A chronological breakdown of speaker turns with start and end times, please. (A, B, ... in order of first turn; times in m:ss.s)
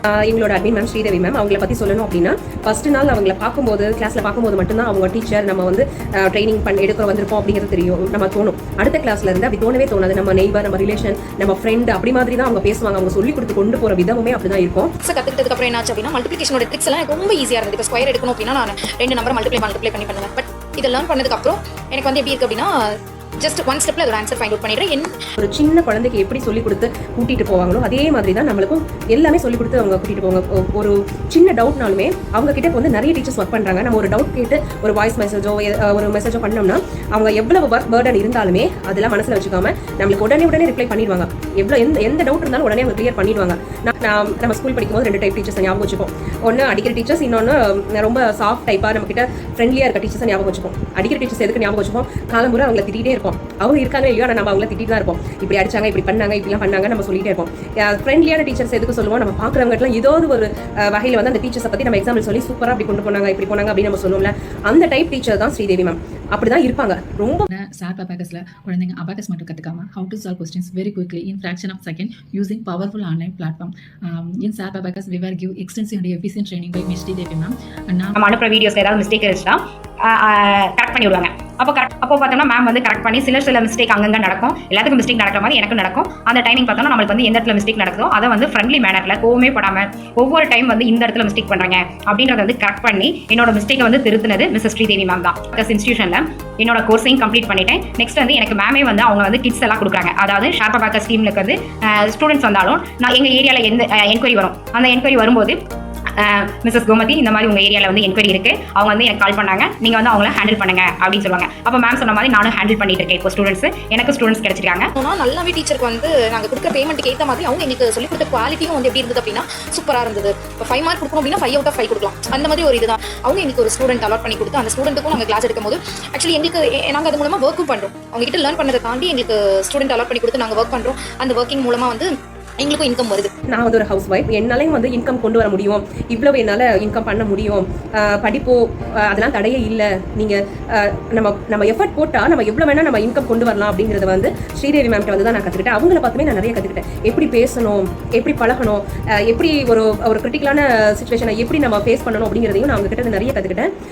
0:00.1-0:14.9 A
0:15.0-0:25.1 B
0:25.4-1:07.5 A
1:07.5-1:18.1 C
1:18.1-1:45.6 D
1:46.1-1:54.9 D
1:54.9-2:13.3 B
2:13.5-2:33.7 A